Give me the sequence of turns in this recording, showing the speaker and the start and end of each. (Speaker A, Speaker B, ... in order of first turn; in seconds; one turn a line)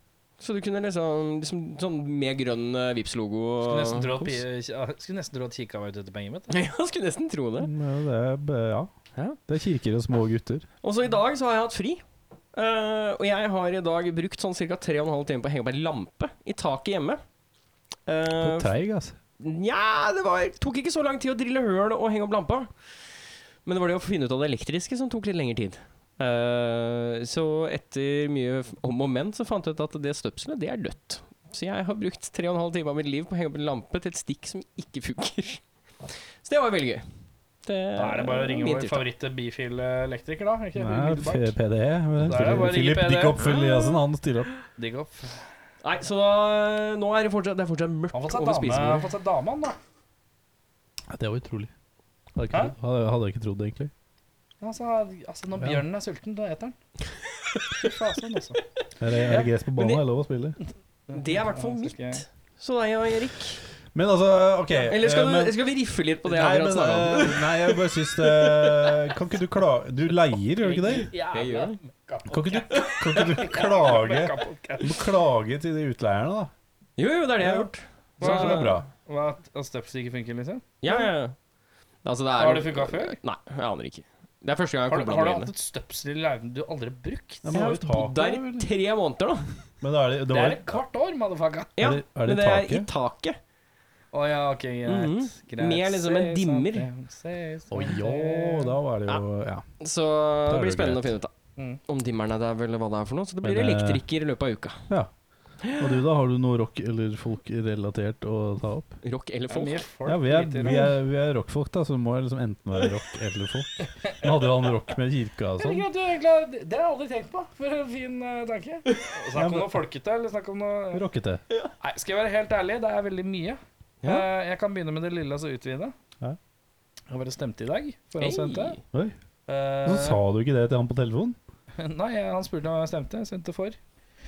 Speaker A: 0.4-4.3
Speaker B: 3.6-6.5
Speaker A: 6.5-7.7
Speaker C: 7.6-8.9
Speaker C: 9.5-10.7
Speaker A: 10.8-12.0
Speaker A: 12.5-17.2
Speaker A: 18.1-18.7
Speaker C: 18.4-19.2
Speaker A: 19.4-22.7
Speaker A: 23.6-35.6
Speaker A: 36.4-37.0
Speaker A: 37.6-39.0
Speaker B: 38.0-41.6
Speaker C: 40.8-44.5
Speaker B: 42.2-43.4
Speaker A: 43.4-44.0
Speaker B: 44.8-45.5
Speaker A: 45.8-49.1
Speaker B: 48.1-49.8
Speaker C: 51.1-51.7
Speaker C: 52.4-53.9
Speaker B: 54.6-56.8
Speaker B: 57.8-58.6
Speaker C: 59.0-60.6
Speaker A: 59.3-60.0
Speaker B: 61.1-62.2
Speaker A: 61.1-63.6
Speaker C: 63.9-65.6
Speaker A: 64.9-69.1
Speaker C: 66.2-71.1
Speaker B: 70.6-75.0
Speaker A: 71.3-71.8
Speaker C: 72.3-76.5
Speaker A: 77.0-78.8
Speaker C: 77.4-78.9
Speaker B: 78.2-81.1
Speaker A: 80.8-81.3
Speaker A: 82.0-85.5
Speaker B: 82.4-83.2
Speaker B: 84.9-88.4
Speaker C: 87.4-88.5
Speaker A: 87.5-89.5
Speaker C: 89.8-90.8
Speaker B: 90.3-91.7
Speaker A: 91.8-93.4
Speaker C: 91.8-92.9
Speaker B: 94.1-98.7
Speaker A: 94.9-96.9
Speaker C: 97.7-99.7
Speaker A: 99.8-101.3
Speaker C: 100.5-101.2
Speaker A: 101.9-104.8
Speaker C: 103.4-104.0
Speaker A: 105.7-106.0
Speaker C: 105.7-109.0
Speaker A: 109.0-109.9
Speaker B: 109.5-110.9
Speaker C: 110.1-115.9
Speaker B: 115.6-121.0
Speaker C: 119.3-119.8
Speaker C: 120.9-121.4
Speaker B: 121.8-125.9
Speaker B: 127.1-128.8
Speaker A: 128.2-128.8
Speaker B: 129.5-130.2
Speaker C: 129.8-131.4
Speaker B: 131.8-133.8